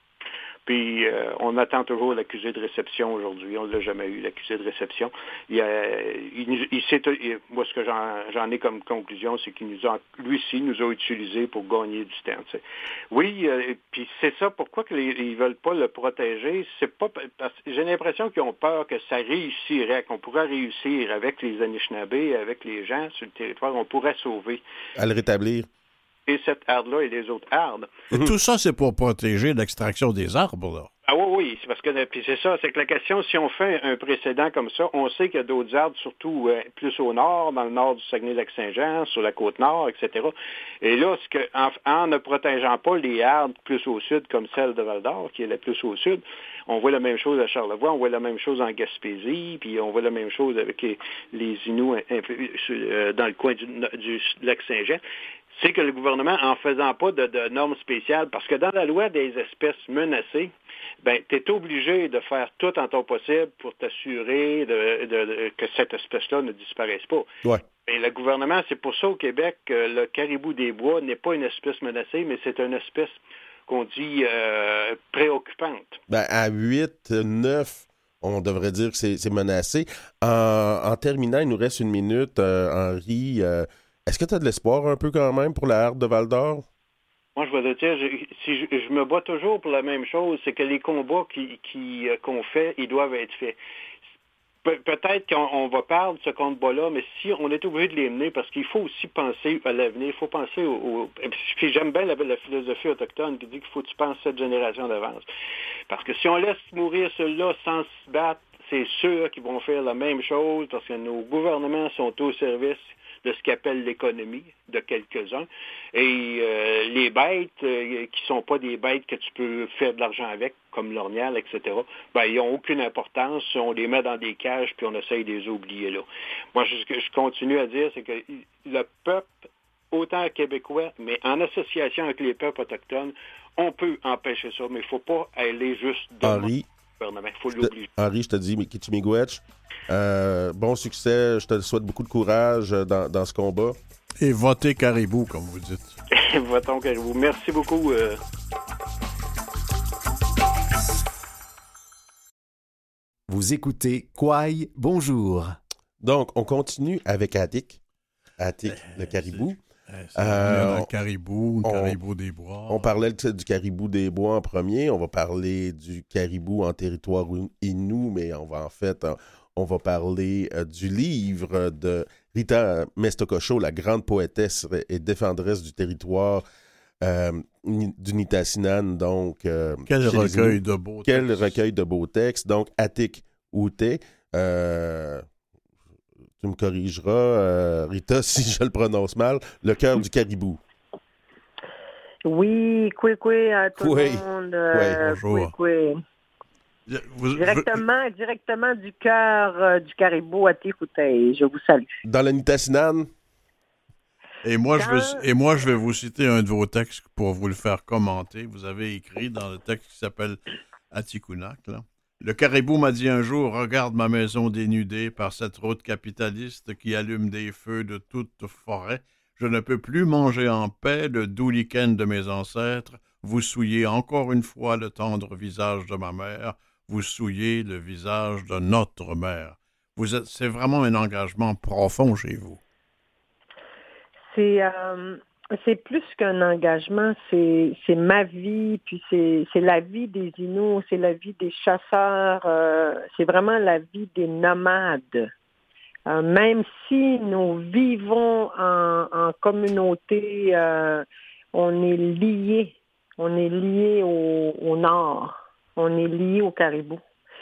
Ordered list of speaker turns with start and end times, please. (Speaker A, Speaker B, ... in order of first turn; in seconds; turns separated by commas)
Speaker A: 0.7-24.6, Speaker B: 24.9-25.7, Speaker A: 26.3-27.9, Speaker C: 28.1-30.9, Speaker A: 31.1-55.0, Speaker A: 55.5-67.3, Speaker A: 67.8-76.0, Speaker B: 76.1-86.7, Speaker A: 87.3-93.6, Speaker A: 94.6-105.2, Speaker A: 105.9-137.9, Speaker B: 136.2-136.7, Speaker B: 137.6-143.8, Speaker C: 144.2-145.9, Speaker A: 146.1-148.2, Speaker D: 153.3-155.6, Speaker B: 156.0-157.8, Speaker B: 158.4-159.6, Speaker C: 158.7-162.9, Speaker B: 160.2-160.9, Speaker B: 161.6-162.0, Speaker B: 162.7-176.4, Speaker B: 177.0-185.2, Speaker C: 179.9-181.5, Speaker B: 186.4-190.6, Speaker E: 192.2-196.0, Speaker B: 193.8-195.0, Speaker C: 195.0-195.5, Speaker C: 196.9-197.8, Speaker E: 197.3-201.9, Speaker B: 202.1-203.1, Speaker C: 204.4-210.4, Speaker E: 204.8-205.2, Speaker C: 210.9-232.6, Speaker E: 234.3-245.3, Speaker E: 246.1-257.0